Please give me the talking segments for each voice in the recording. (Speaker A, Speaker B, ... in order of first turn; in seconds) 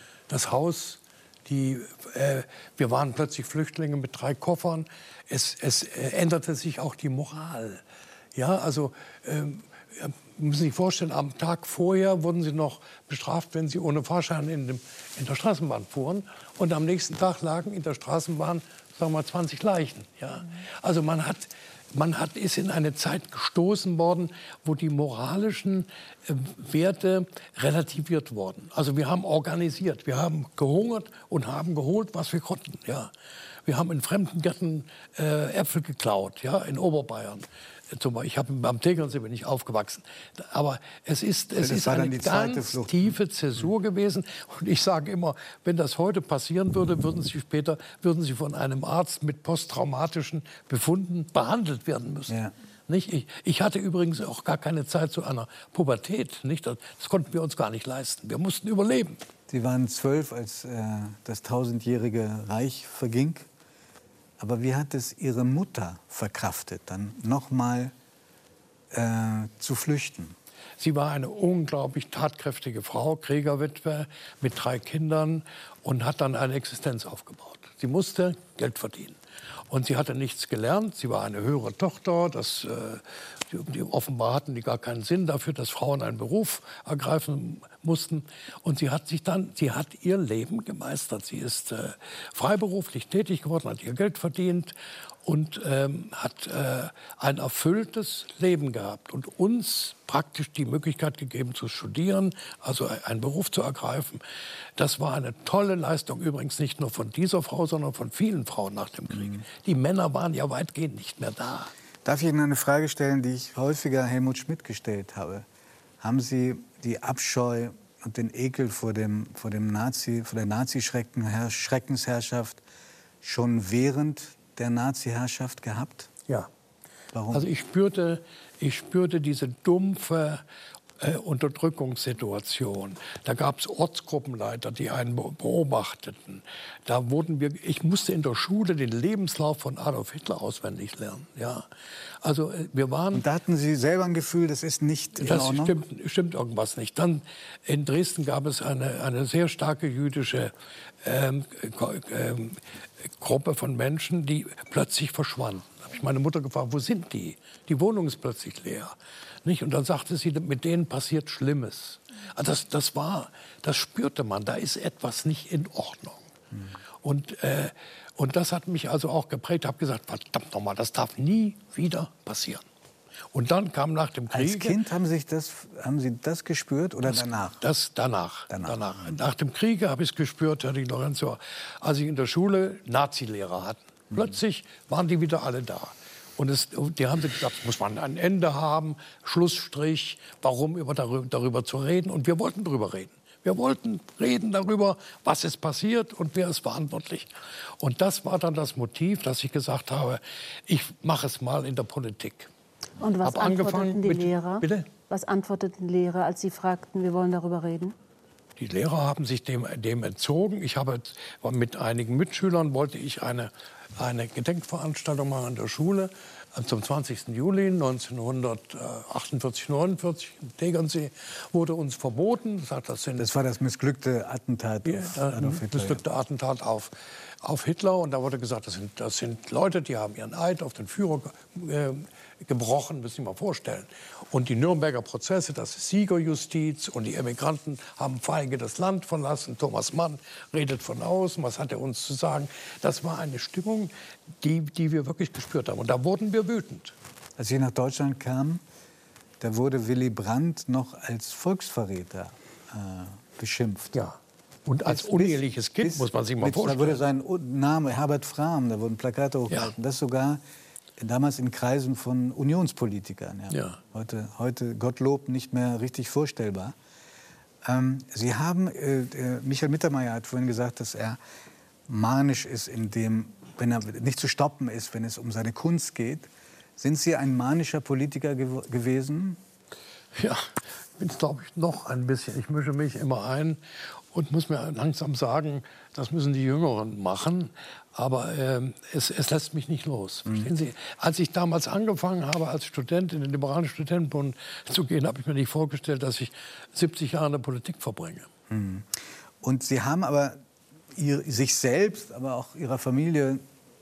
Speaker A: 0.3-7.8, 8.3-33.1, 33.7-52.4, 52.9-59.2, 70.8-79.2, 79.7-104.2, 104.8-111.7, 127.3-130.4, 131.0-141.7, 142.2-143.2, 145.2-152.6, 153.2-166.3, 167.0-172.6, 173.3-174.8, 177.1-202.5, 203.2-204.9, 208.6-223.3, 224.8-246.9, 253.9-257.0, 263.5-263.8, 280.2-298.3
Speaker B: 41.6-43.1, 59.5-63.5, 64.4-67.9, 68.9-70.3, 112.0-115.5, 116.0-122.6, 123.2-126.1, 127.1-127.5, 143.1-145.8, 174.3-177.6, 178.5-179.2, 223.2-226.0, 247.4-248.6, 249.4-254.0, 254.9-260.4, 261.0-266.7, 267.6-271.2, 271.9-279.4, 298.5-300.4, 300.9-303.4
Speaker C: 203.0-207.9